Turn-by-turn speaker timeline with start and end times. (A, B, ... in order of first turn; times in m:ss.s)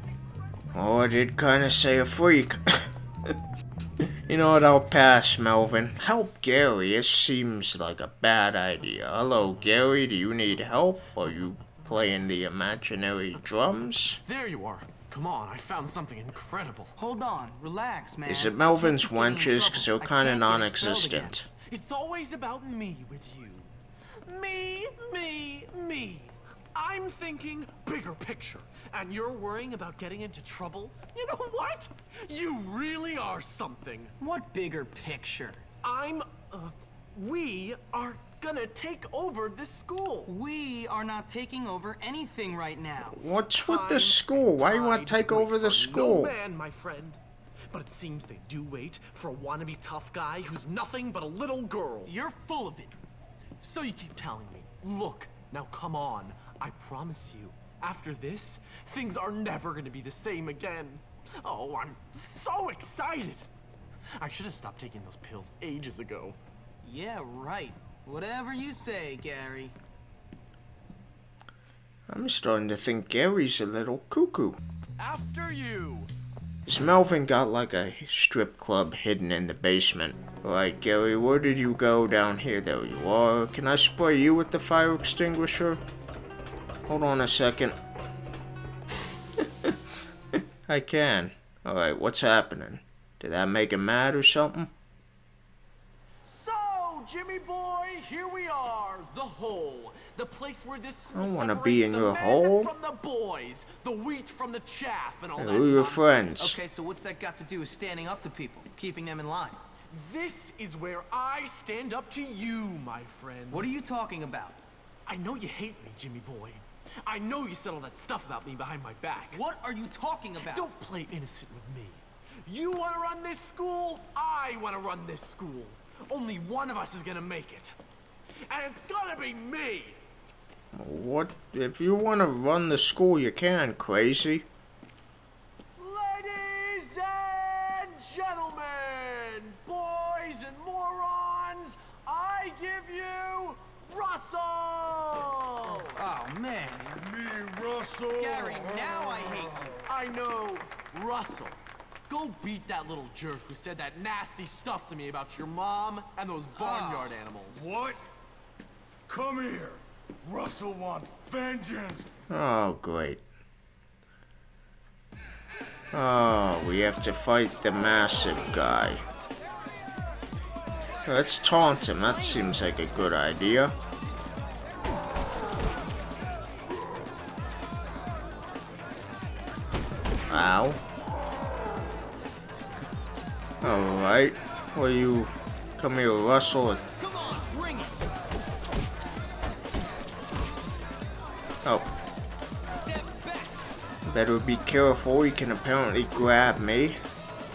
0:00.7-0:02.9 A
0:04.3-0:14.2 A
0:14.2-0:16.9 B
0:17.0-0:21.3 C
0:18.2-0:21.5 A
0:21.7-0:23.7 B
0:24.2-0:34.1 B
0:34.2-0:35.6 C
0:35.8-0:40.3 B
0:40.3-0:43.2 C
0:43.1-0:46.3 A
0:43.6-0:52.1 B
0:52.0-0:53.0 C
0:53.6-1:03.5 B
1:04.2-1:06.4 B
1:06.8-1:09.7 C
1:12.1-1:14.6 A
1:15.0-1:16.1 B
1:16.6-1:25.8 A
1:26.9-1:27.8 A
1:30.7-1:34.7 A
1:36.2-1:46.3 B
1:41.1-1:42.7 A
1:45.4-1:46.6 A
1:46.4-1:49.6 C
1:49.9-1:53.7 B
1:53.5-1:54.6 C
1:55.1-1:59.4 B
1:59.3-2:00.7 C
2:00.3-2:07.7 B
2:08.5-2:10.0 B
2:10.7-2:14.5 A
2:15.8-2:26.0 B
2:25.9-2:26.9 C
2:26.8-2:29.8 D
2:28.1-2:29.7 C
2:29.8-2:37.7 B
2:36.7-2:38.0 D
2:36.8-2:37.1 C
2:39.1-2:42.0 D
2:42.3-2:43.2 A
2:45.9-2:49.0 A
2:51.0-2:53.7 A
3:00.3-3:00.8 A
3:03.6-3:06.8 A
3:07.0-3:08.0 C
3:12.7-3:13.6 C
3:14.0-3:17.0 A